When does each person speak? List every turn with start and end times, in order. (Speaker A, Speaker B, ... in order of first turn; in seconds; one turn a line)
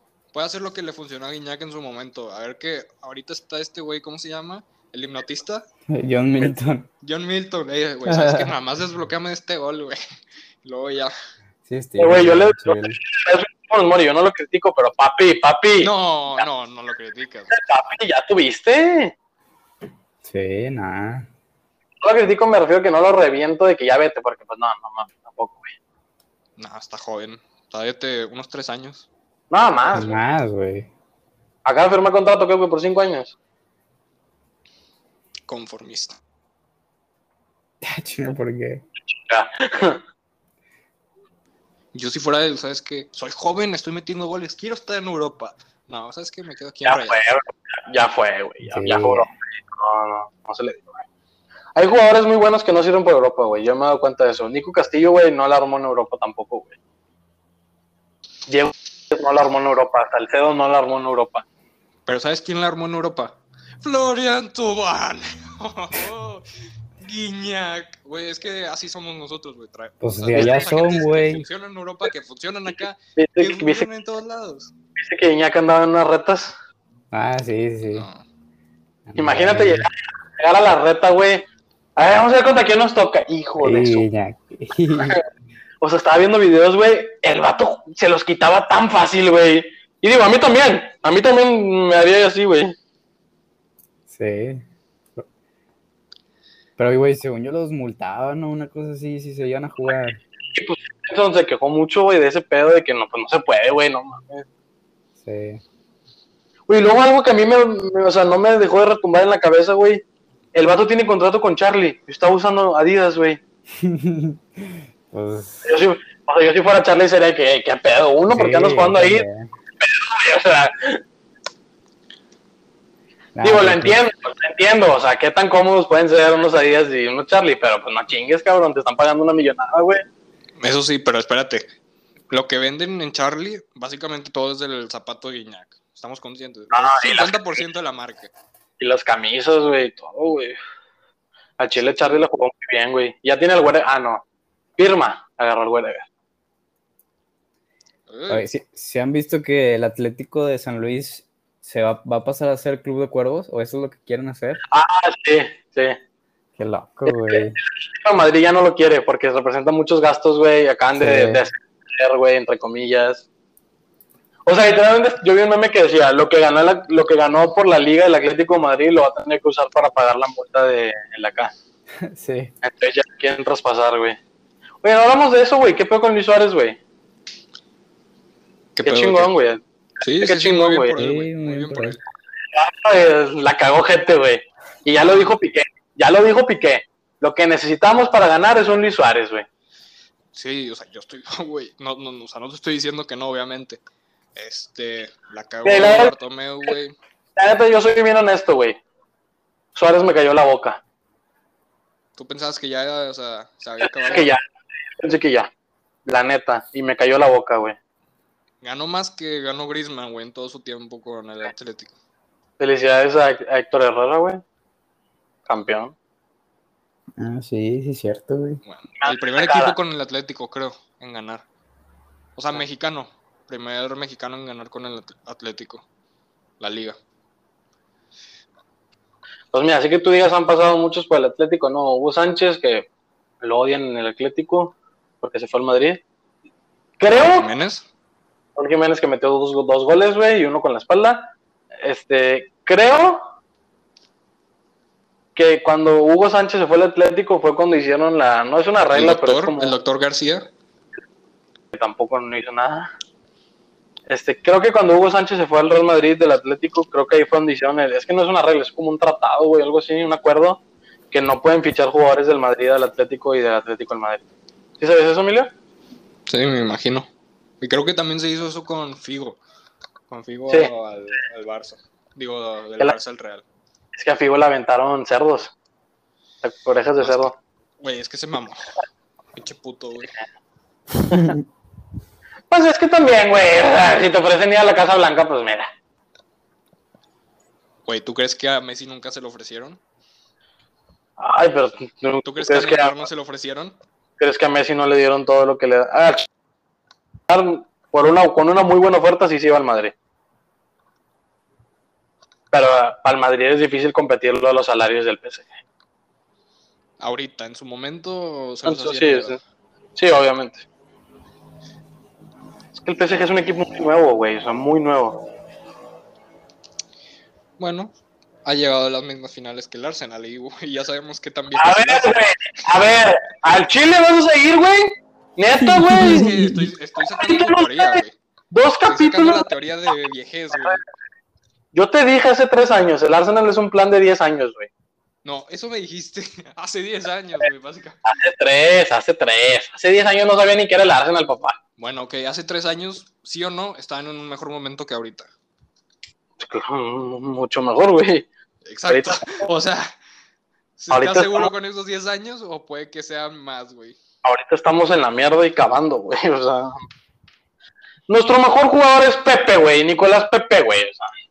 Speaker A: 0.3-5.7
Speaker B: 5.9-6.9
Speaker A: 7.0-10.0
Speaker B: 8.1-8.6
Speaker A: 10.7-11.1
Speaker B: 11.7-13.0
Speaker C: 12.0-15.9
Speaker A: 15.8-17.5
Speaker C: 17.5-19.1
Speaker B: 20.2-21.3
Speaker C: 22.0-25.7
Speaker A: 26.6-29.1
Speaker C: 29.5-30.2
Speaker B: 29.9-30.9
Speaker C: 31.6-33.4
Speaker A: 35.5-36.2
Speaker B: 37.8-38.8
Speaker C: 39.1-40.0
Speaker A: 41.9-47.2
Speaker C: 46.9-51.0
Speaker B: 48.6-49.3
Speaker C: 51.8-56.8
Speaker C: 58.5-61.5
Speaker A: 62.1-66.5
Speaker A: 67.0-74.7
Speaker B: 70.0-71.5
Speaker C: 73.2-73.9
Speaker C: 75.0-76.5
Speaker B: 77.1-78.1
Speaker A: 77.9-78.2
Speaker B: 79.1-79.8
Speaker C: 79.2-81.4
Speaker C: 82.0-84.1
Speaker B: 83.6-85.2
Speaker C: 85.0-85.2
Speaker C: 85.8-92.8
Speaker B: 94.1-94.6
Speaker B: 96.8-100.2
Speaker C: 100.5-104.5
Speaker B: 105.2-105.6
Speaker C: 106.7-110.0
Speaker C: 110.5-113.4
Speaker B: 113.8-115.7
Speaker C: 115.6-119.2
Speaker B: 118.3-119.5
Speaker C: 119.8-121.0
Speaker B: 123.3-124.0
Speaker C: 123.4-130.1
Speaker A: 130.6-131.7
Speaker A: 132.3-138.3
Speaker C: 136.7-137.6
Speaker C: 138.8-140.6
Speaker C: 141.6-144.2
Speaker C: 144.8-146.1
Speaker A: 148.1-148.5
Speaker B: 148.3-154.6
Speaker C: 154.7-156.0
Speaker B: 156.6-157.6
Speaker C: 157.1-163.3
Speaker B: 161.0-161.4
Speaker C: 164.5-171.5
Speaker B: 172.0-172.5
Speaker C: 172.6-174.2
Speaker C: 174.8-176.8
Speaker A: 178.8-179.3
Speaker C: 178.8-180.9
Speaker A: 180.0-182.0
Speaker B: 180.9-182.0
Speaker C: 182.5-189.5
Speaker A: 185.0-185.3
Speaker A: 190.3-193.8
Speaker A: 194.3-197.0
Speaker C: 195.7-196.1
Speaker C: 197.4-198.8
Speaker C: 199.8-200.8
Speaker A: 202.2-204.3
Speaker C: 203.8-204.4
Speaker C: 205.0-205.5
Speaker C: 206.1-207.8
Speaker A: 208.6-212.0
Speaker C: 212.6-214.4
Speaker C: 215.5-215.9
Speaker B: 217.2-218.6
Speaker A: 218.7-221.4
Speaker C: 219.0-219.8
Speaker A: 222.4-225.8
Speaker A: 226.6-227.0
Speaker C: 229.5-232.9
Speaker C: 233.4-236.0
Speaker C: 237.0-237.5
Speaker A: 237.1-237.8
Speaker C: 238.6-243.3
Speaker C: 245.4-249.8
Speaker A: 248.9-250.5
Speaker C: 251.7-252.9
Speaker C: 254.1-264.2
Speaker C: 264.8-265.5
Speaker A: 266.3-267.1
Speaker A: 267.6-269.4
Speaker A: 270.1-273.4
Speaker C: 273.9-275.5
Speaker C: 276.4-277.3
Speaker A: 277.0-278.8
Speaker A: 279.3-280.1
Speaker C: 282.5-285.7
Speaker A: 287.9-289.8
Speaker C: 291.2-292.9
Speaker A: 292.2-293.8
Speaker C: 294.2-296.3
Speaker C: 297.3-299.9
Speaker C: 302.5-305.5
Speaker A: 307.0-309.4
Speaker C: 308.6-309.4
Speaker C: 310.0-310.7
Speaker C: 312.8-315.3
Speaker A: 317.6-317.9
Speaker A: 318.4-322.3
Speaker C: 321.6-326.3
Speaker B: 325.7-326.7
Speaker A: 325.9-328.1
Speaker C: 327.1-329.5
Speaker A: 328.9-330.8
Speaker C: 331.7-334.7
Speaker A: 335.2-338.0
Speaker C: 338.1-341.6
Speaker A: 341.8-345.3
Speaker C: 346.4-348.3
Speaker A: 348.6-349.9
Speaker C: 348.9-349.4
Speaker A: 350.8-354.0
Speaker C: 350.9-351.5
Speaker C: 354.2-356.8
Speaker C: 358.1-361.1